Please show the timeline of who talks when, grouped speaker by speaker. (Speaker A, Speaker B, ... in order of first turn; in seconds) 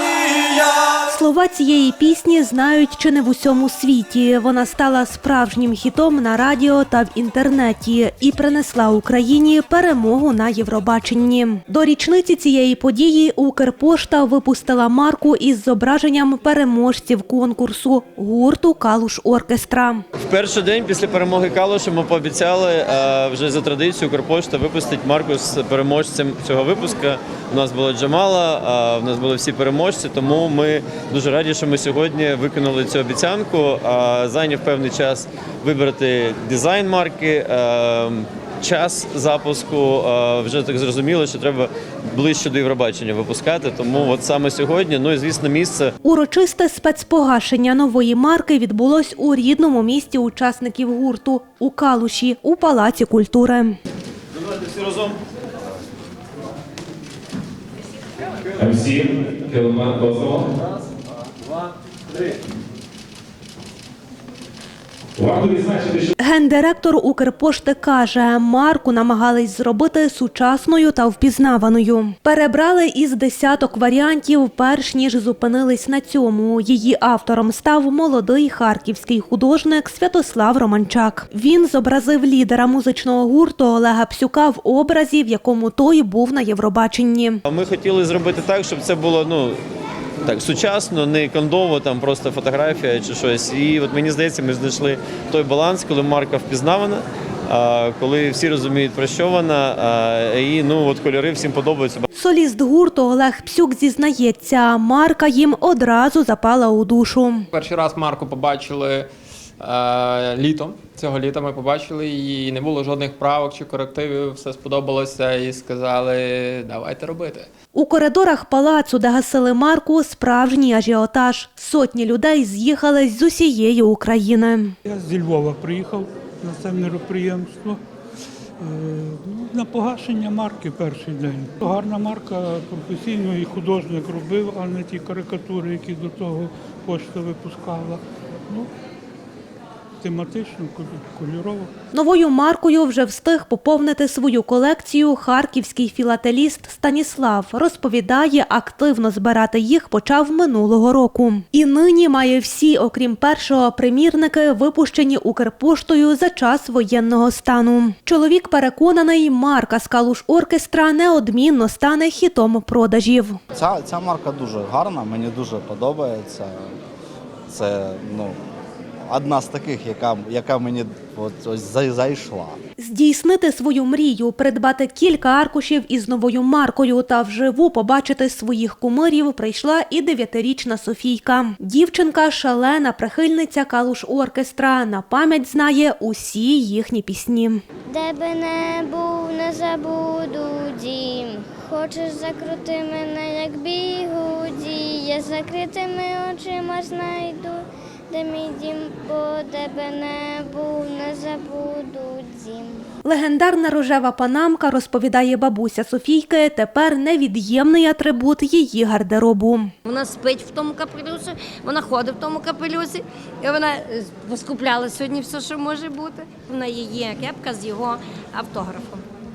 Speaker A: 1.0-20.0, 46.0-53.8, 66.2-87.4, 102.1-107.5, 117.7-124.8, 141.9-163.4, 172.8-187.6, 203.0-209.7
Speaker B: 20.1-45.9, 54.7-55.1, 87.5-89.6, 90.2-102.0
Speaker C: 58.6-60.5, 65.2-66.1
Speaker D: 107.5-109.1, 109.6-117.5
Speaker E: 124.8-127.8, 128.6-138.7, 140.0-141.7
Speaker F: 163.5-166.7, 167.5-168.4, 169.1-172.6
Speaker G: 187.9-202.9
Speaker H: 209.8-219.0